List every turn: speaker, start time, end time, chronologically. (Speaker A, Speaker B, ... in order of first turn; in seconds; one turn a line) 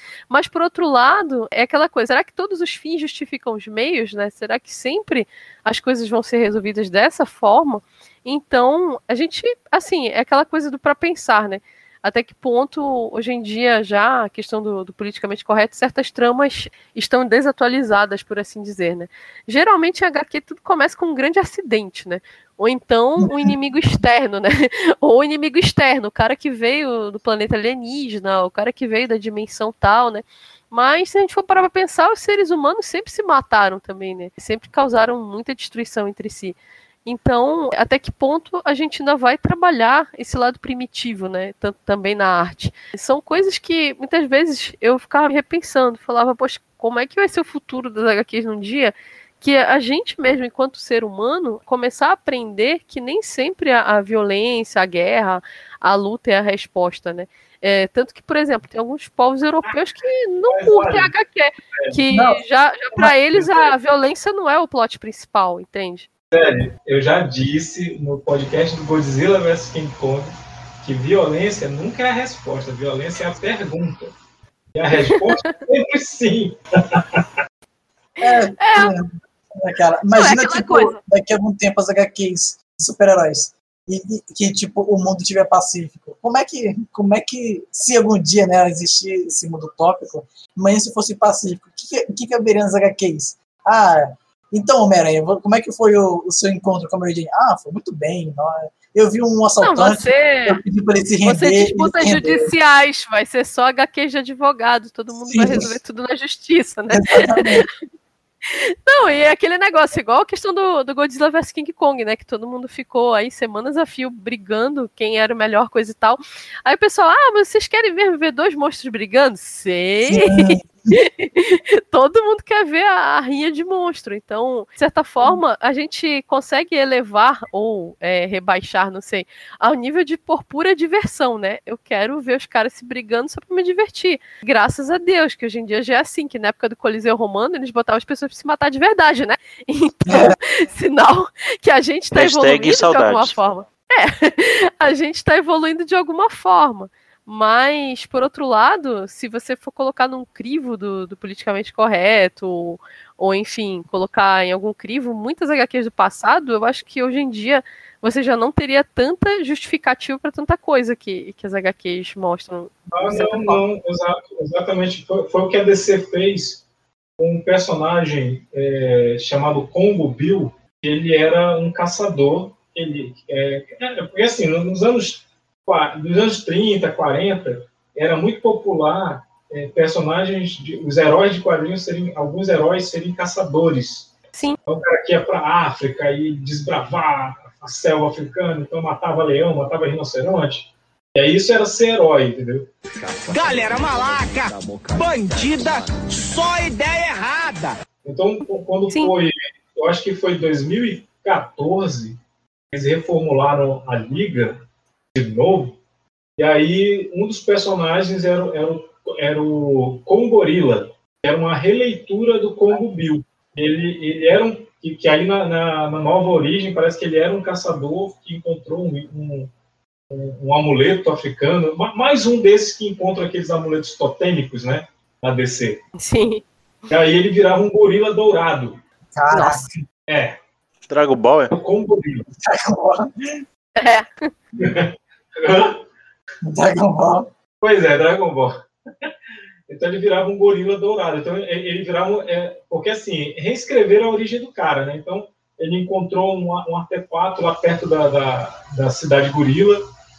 Speaker A: 0.3-66.1
Speaker B: 23.2-23.5
Speaker C: 60.5-61.1
Speaker B: 62.1-62.4
Speaker C: 66.3-74.1
Speaker C: 74.7-77.2
Speaker A: 75.0-75.6
Speaker A: 78.2-78.9
Speaker B: 78.2-102.5
Speaker A: 80.2-81.0
Speaker A: 99.6-100.6
Speaker A: 101.2-107.6
Speaker B: 105.2-105.7
Speaker B: 106.9-107.7
Speaker A: 108.5-163.6
Speaker B: 120.0-120.9
Speaker B: 140.1-140.3
Speaker D: 142.1-143.4
Speaker C: 162.9-166.6
Speaker C: 167.2-184.1
Speaker C: 184.7-192.7
Speaker E: 193.3-197.7
Speaker C: 198.0-202.2
Speaker C: 202.7-204.6
Speaker C: 205.1-205.8
Speaker C: 206.4-219.5
Speaker C: 220.1-225.8
Speaker A: 226.0-226.4
Speaker C: 226.9-228.8
Speaker B: 229.1-229.8
Speaker A: 229.3-229.6
Speaker C: 230.1-230.4
Speaker D: 230.9-231.5
Speaker C: 231.5-232.3
Speaker B: 232.4-233.4
Speaker A: 233.8-234.3
Speaker C: 234.6-235.8
Speaker B: 236.4-237.3
Speaker C: 237.6-239.1
Speaker C: 239.7-249.8